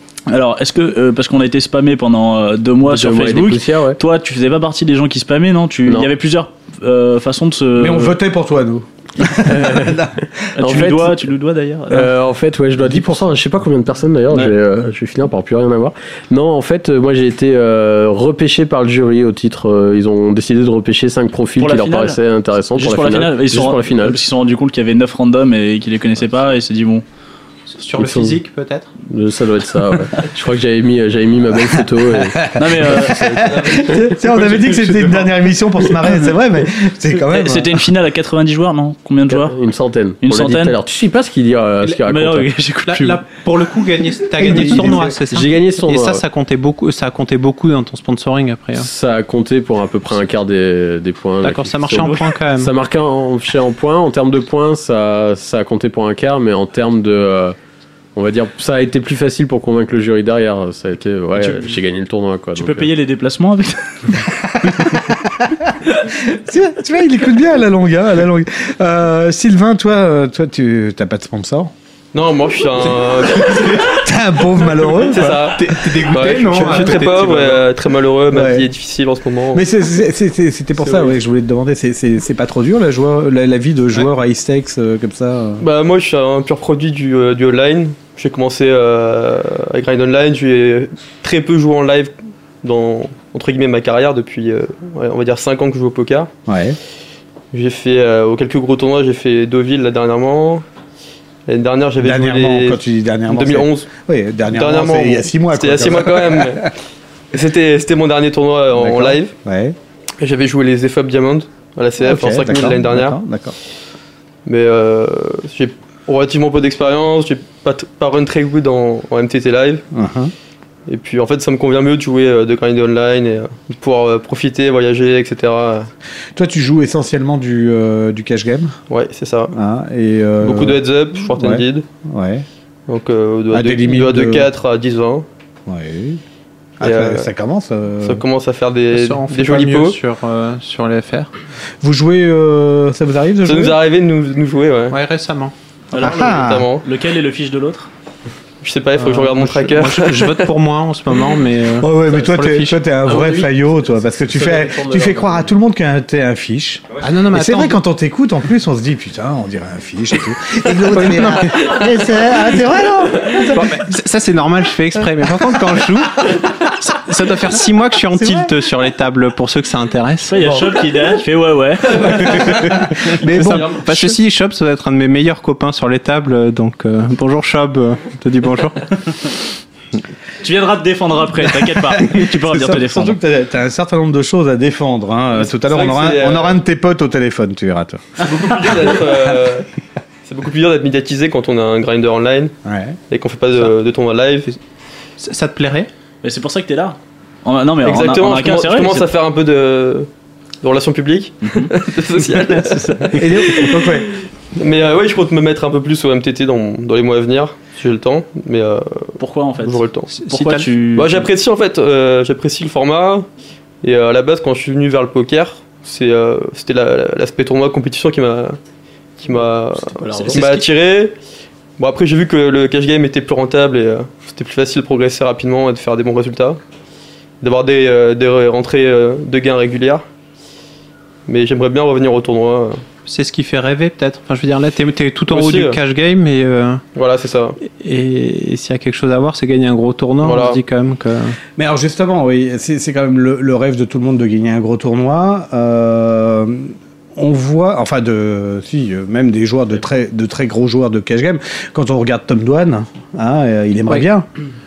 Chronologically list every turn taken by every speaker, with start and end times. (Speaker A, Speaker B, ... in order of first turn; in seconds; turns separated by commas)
Speaker A: 0.3-8.2, Speaker B: 2.8-4.0, Speaker C: 7.8-10.2, Speaker B: 9.4-10.0, Speaker A: 10.6-12.1, Speaker B: 10.6-11.2, Speaker B: 11.9-24.2, Speaker C: 12.8-13.3, Speaker A: 21.6-22.2, Speaker A: 22.8-27.0, Speaker D: 27.7-28.9, Speaker B: 27.9-28.4, Speaker B: 29.1-33.8, Speaker C: 32.4-37.8, Speaker A: 32.6-33.5, Speaker B: 34.4-35.0, Speaker A: 37.3-39.6, Speaker B: 39.3-42.5, Speaker A: 40.2-40.7, Speaker A: 41.9-43.2, Speaker D: 42.9-48.9, Speaker C: 44.4-45.1, Speaker B: 44.6-46.2, Speaker B: 48.8-57.6, Speaker D: 51.4-52.7, Speaker B: 58.1-62.9, Speaker A: 61.4-61.8, Speaker A: 62.6-64.0, Speaker A: 64.6-65.0, Speaker C: 64.8-65.2, Speaker C: 66.3-71.7, Speaker E: 72.1-73.9, Speaker C: 73.4-77.3, Speaker E: 75.1-79.6, Speaker D: 75.2-77.6, Speaker C: 78.3-78.7, Speaker C: 79.5-85.6, Speaker E: 85.6-96.3, Speaker C: 96.5-96.8, Speaker E: 97.5-100.6, Speaker E: 101.5-103.9, Speaker C: 102.0-106.7, Speaker E: 104.5-106.7, Speaker E: 107.3-109.3, Speaker C: 108.7-109.8, Speaker E: 110.2-113.2, Speaker C: 112.0-113.5, Speaker E: 114.5-119.8, Speaker C: 119.9-120.3, Speaker E: 120.9-125.9, Speaker C: 126.3-128.8, Speaker E: 128.9-129.5, Speaker C: 129.5-130.8, Speaker E: 130.4-131.8, Speaker C: 131.3-132.4, Speaker E: 132.9-135.3, Speaker C: 133.5-134.5, Speaker C: 135.7-136.2, Speaker E: 136.8-137.3, Speaker C: 136.8-138.2, Speaker E: 138.0-140.0, Speaker D: 138.9-141.3, Speaker C: 141.8-143.8, Speaker E: 143.4-145.0, Speaker D: 144.9-145.5, Speaker A: 145.9-147.9, Speaker C: 146.0-146.7, Speaker E: 146.2-146.8, Speaker E: 148.6-150.3, Speaker D: 149.0-152.8, Speaker C: 151.8-163.8, Speaker B: 153.1-153.6, Speaker B: 154.2-155.5, Speaker D: 157.0-157.8, Speaker D: 160.9-161.8, Speaker D: 163.5-170.7, Speaker C: 168.1-168.5, Speaker A: 170.3-172.7, Speaker C: 173.2-174.0, Speaker D: 173.2-178.8, Speaker E: 173.4-173.9, Speaker A: 180.4-183.2, Speaker C: 181.4-188.3, Speaker E: 185.4-186.6, Speaker E: 188.2-189.7, Speaker E: 190.3-192.5, Speaker C: 192.7-193.0, Speaker E: 193.1-194.6, Speaker D: 195.2-195.9, Speaker A: 196.2-199.1, Speaker E: 197.8-200.1, Speaker E: 200.6-210.1, Speaker A: 201.4-203.2, Speaker C: 203.2-204.1, Speaker A: 209.2-211.3, Speaker D: 210.2-210.7, Speaker E: 210.9-213.3, Speaker E: 213.8-218.6, Speaker E: 219.2-221.1, Speaker B: 219.9-220.6, Speaker D: 220.3-220.6, Speaker E: 221.8-226.6, Speaker E: 227.4-230.0, Speaker E: 231.3-232.8, Speaker D: 233.1-236.8, Speaker E: 235.3-235.8, Speaker E: 236.9-237.6, Speaker D: 237.6-241.4, Speaker E: 240.2-240.6, Speaker C: 241.6-254.3